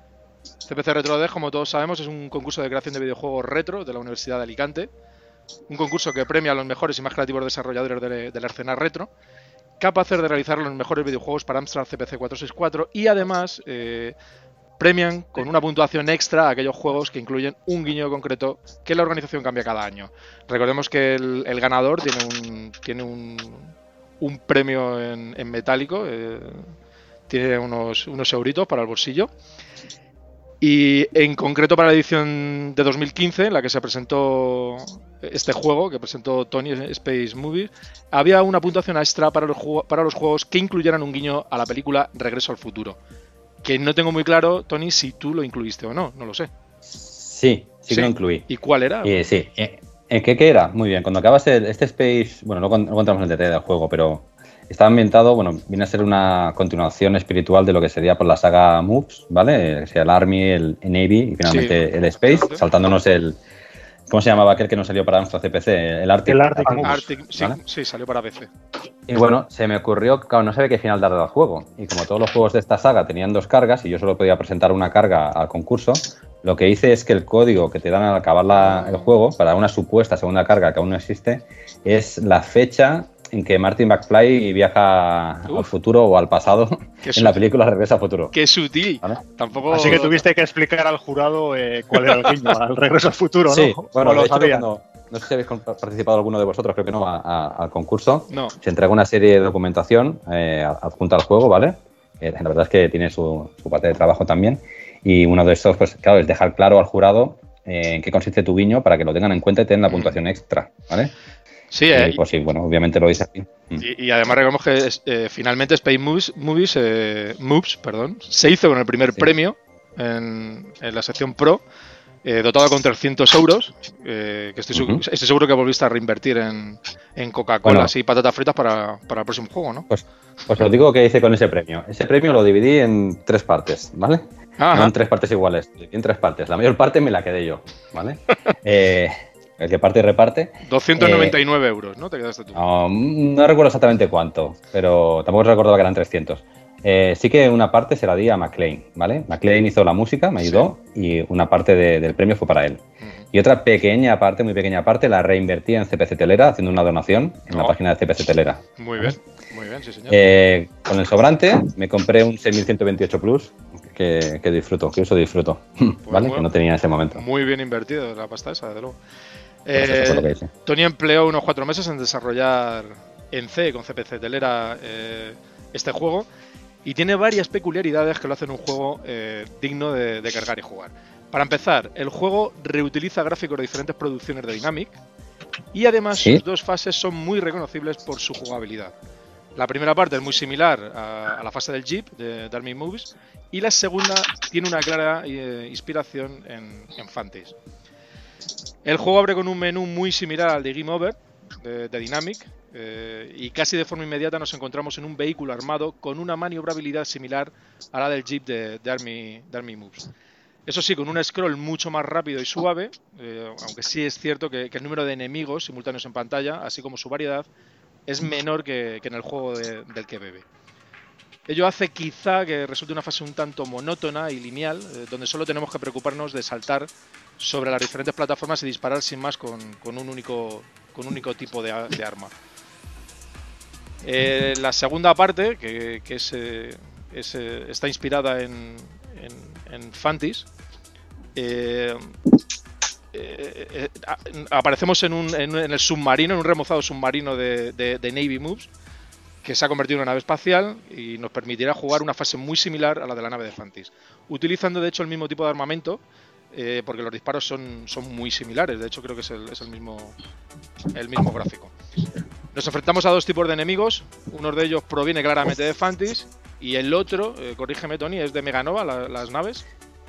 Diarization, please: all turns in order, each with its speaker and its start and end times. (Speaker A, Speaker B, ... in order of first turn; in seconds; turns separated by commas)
Speaker A: 0.7-4.9, Speaker A: 5.7-9.1, Speaker A: 9.8-14.1, Speaker A: 14.8-26.7, Speaker A: 27.3-29.3, Speaker A: 30.6-43.0, Speaker A: 43.6-46.5, Speaker B: 46.9-48.5, Speaker A: 47.9-49.1, Speaker B: 49.0-63.4, Speaker A: 61.5-62.6, Speaker B: 64.1-67.6, Speaker C: 66.2-67.1, Speaker A: 66.8-68.5, Speaker B: 69.1-88.3, Speaker A: 78.6-79.1, Speaker A: 87.0-87.4, Speaker A: 88.3-90.2, Speaker C: 89.7-94.7, Speaker A: 92.1-92.3, Speaker B: 93.5-111.1, Speaker A: 98.3-98.5, Speaker A: 109.9-110.2, Speaker A: 111.7-112.2, Speaker B: 111.9-113.8, Speaker A: 113.8-121.6, Speaker A: 122.2-129.9, Speaker B: 124.7-125.0, Speaker B: 127.6-127.9, Speaker B: 129.9-141.4, Speaker A: 134.6-134.9, Speaker A: 140.7-142.6, Speaker B: 142.6-152.8, Speaker B: 153.3-159.2, Speaker A: 158.8-160.2, Speaker B: 160.1-167.2, Speaker A: 166.1-166.4, Speaker A: 167.1-169.0, Speaker A: 169.7-176.3, Speaker B: 169.7-170.5, Speaker A: 176.8-184.9, Speaker A: 185.7-188.9, Speaker A: 189.6-197.6, Speaker A: 198.8-210.1, Speaker A: 210.7-217.5, Speaker A: 218.1-220.4, Speaker A: 221.5-226.9, Speaker A: 227.4-232.3, Speaker A: 234.0-240.5, Speaker A: 241.3-242.1, Speaker A: 243.1-248.7, Speaker A: 249.4-256.0, Speaker A: 256.5-260.1, Speaker A: 260.9-261.7, Speaker A: 262.5-269.6